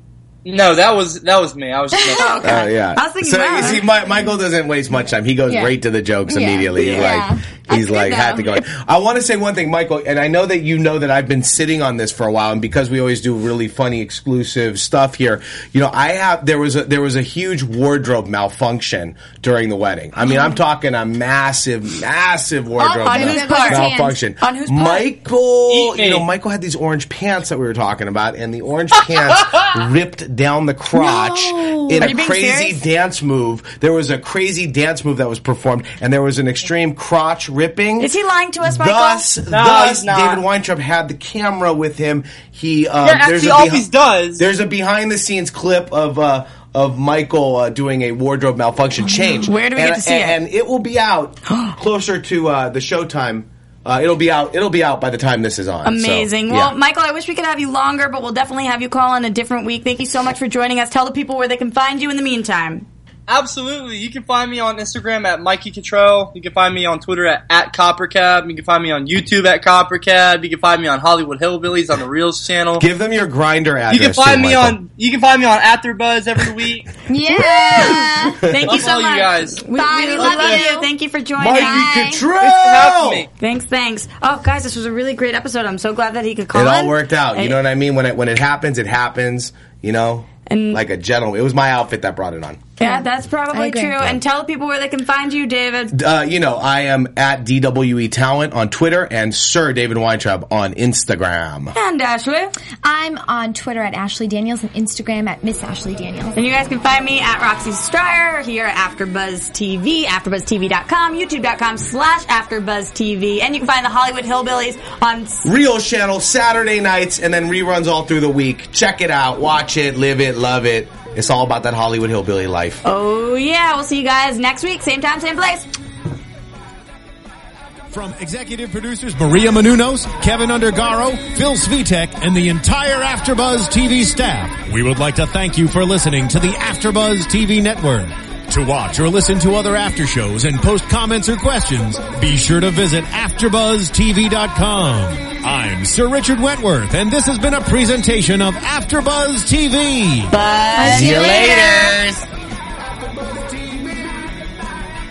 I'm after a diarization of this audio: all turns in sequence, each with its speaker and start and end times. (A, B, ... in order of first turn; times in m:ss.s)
0:00.4-0:02.6 A
0:02.0-0:02.4 B
0:02.2-0:03.9 C
0:02.4-0:38.1 D
0:05.5-0:05.8 B
0:06.3-0:08.6 B
0:06.7-0:07.2 C
0:22.8-0:24.2 B
0:23.0-0:25.1 C
0:25.7-0:26.3 A
0:30.9-0:32.1 B
0:32.0-0:32.8 C
0:38.0-0:39.3 C
0:38.6-0:43.9 D
0:39.5-0:40.4 A
0:43.0-0:44.4 A
0:44.4-0:56.7 D
0:49.4-0:50.4 C
0:55.8-1:02.9 C
1:03.3-1:12.9 A
1:12.8-1:14.8 D
1:13.9-1:16.9 A
1:17.1-1:18.4 B
1:17.3-1:21.9 C
1:18.2-1:18.8 D
1:18.6-1:19.6 A
1:19.7-1:20.9 B
1:20.2-1:20.7 A
1:21.4-1:23.2 D
1:21.5-1:22.2 B
1:22.4-1:23.3 A
1:23.4-1:27.6 C
1:26.5-1:32.7 D
1:30.5-1:30.8 C
1:32.8-1:36.0 C
1:32.8-1:34.1 B
1:35.9-1:41.7 D
1:41.7-1:42.5 C
1:42.8-1:46.4 B
1:46.3-1:55.4 C
1:55.4-2:02.8 D
2:02.8-2:05.7 C
2:07.9-2:30.4 E
2:30.3-2:31.3 C
2:30.8-2:32.0 B
2:30.8-2:32.2 D